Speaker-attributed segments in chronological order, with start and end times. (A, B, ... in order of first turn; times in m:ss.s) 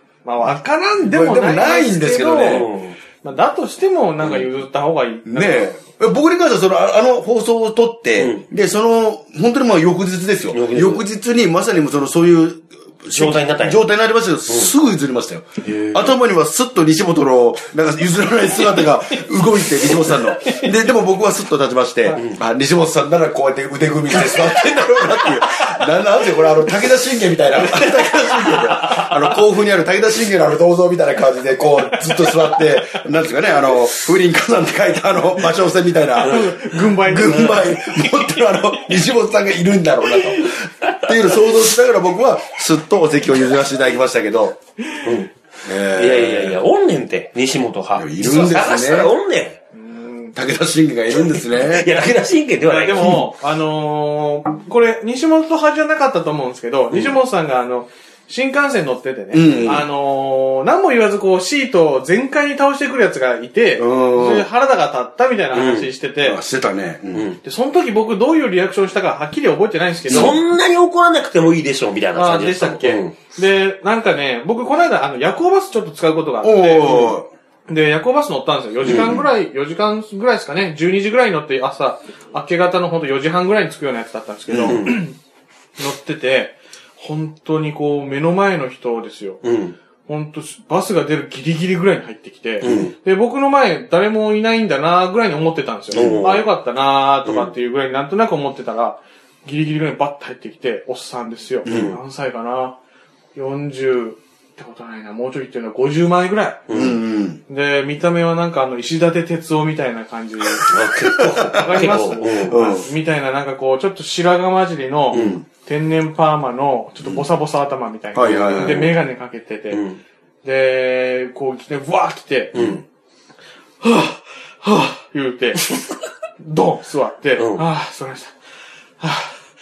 0:00.2-0:02.6 A
0:01.0-0:02.7 B
0:02.4-0:03.0 C
0:03.2-0:05.8 A
0:04.2-0:04.5 C
0:05.3-0:44.6 B
0:08.2-0:08.4 C
0:10.5-0:11.1 C
0:13.1-0:13.8 C
0:15.6-0:16.1 C
0:18.6-0:20.7 C
0:24.2-0:24.6 C
0:27.5-0:29.4 C
0:31.9-0:33.0 A
0:36.2-0:39.0 A
0:36.2-0:37.7 C
0:40.3-0:40.5 A
0:40.8-0:41.4 C
0:44.9-0:45.2 A
0:45.0-0:45.3 C
0:45.6-0:46.6 B
0:45.9-0:49.6 C
0:48.0-0:49.1 B
0:49.7-0:50.4 A
0:50.4-0:52.0 B
0:51.1-0:53.3 C
0:52.6-1:06.4 A
0:52.9-0:53.3 B
0:59.3-0:59.9 B
1:03.8-1:04.5 B
1:05.5-1:05.9 C
1:06.2-1:07.3 B
1:07.1-1:07.4 C
1:07.4-1:10.4 A
1:10.1-1:10.4 B
1:10.1-1:13.2 C
1:12.2-1:25.2 A
1:16.4-1:17.3 B
1:18.8-1:19.2 C
1:18.8-1:19.3 B
1:24.5-1:24.9 B
1:24.6-1:25.0 C
1:25.8-1:29.4 A
1:29.4-1:29.8 C
1:30.1-1:42.8 A
1:32.6-1:32.9 C
1:35.9-1:36.5 C
1:35.9-1:36.2 B
1:37.2-1:37.5 C
1:41.6-1:42.0 B
1:41.6-1:42.0 C
1:43.4-1:46.8 A
1:46.7-1:47.0 C
1:46.7-1:47.4 B
1:47.5-1:50.7 A
1:50.7-1:52.6 C
1:51.0-1:52.9 B
1:51.4-1:59.8 A
1:55.1-1:55.4 C
1:55.1-1:55.4 B
1:58.1-1:59.0 B
1:58.2-1:58.8 C
1:59.7-2:00.0 C
2:00.4-2:02.8 A
2:02.5-2:02.8 C
2:03.8-2:05.8 A
2:06.4-2:08.4 A
2:07.4-2:07.7 C
2:09.0-2:09.4 A